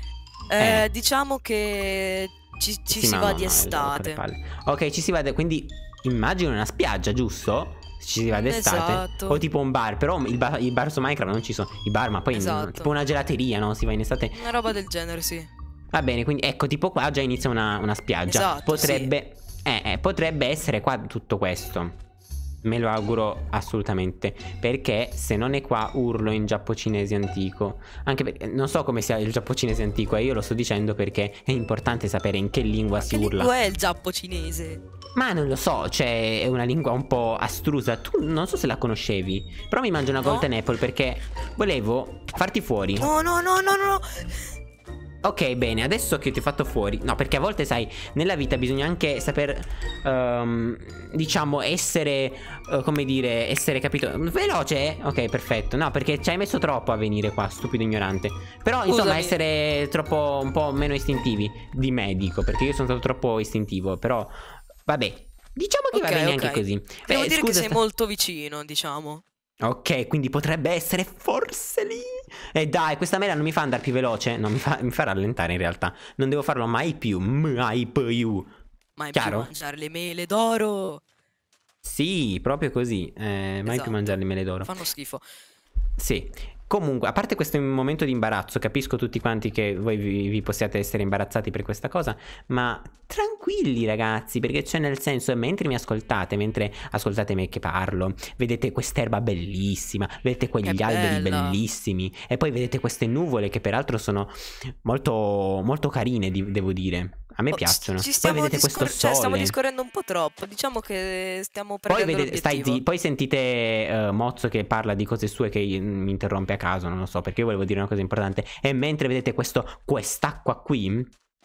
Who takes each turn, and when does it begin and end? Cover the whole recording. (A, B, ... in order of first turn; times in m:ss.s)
0:00.5-0:04.2 A
0:00.6-0:00.9 B
0:02.9-0:14.4 B
0:08.3-0:09.4 A
0:12.3-0:12.9 A
0:14.3-0:15.5 A
0:15.9-0:22.0 B
0:18.3-0:19.1 A
0:22.6-0:33.5 B
0:32.9-0:34.8 A
0:35.2-0:43.1 B
0:40.2-0:40.5 A
0:43.0-0:44.4 A
0:45.2-1:04.3 B
0:58.8-0:59.4 A
1:04.8-1:07.8 B
1:05.9-1:09.2 A
1:09.6-1:18.5 B
1:19.0-1:21.0 A
1:19.1-1:19.5 B
1:21.8-1:24.7 B
1:23.6-1:25.2 A
1:26.0-1:49.5 B
1:40.6-1:41.6 A
1:47.5-1:52.8 A
1:51.9-2:01.1 B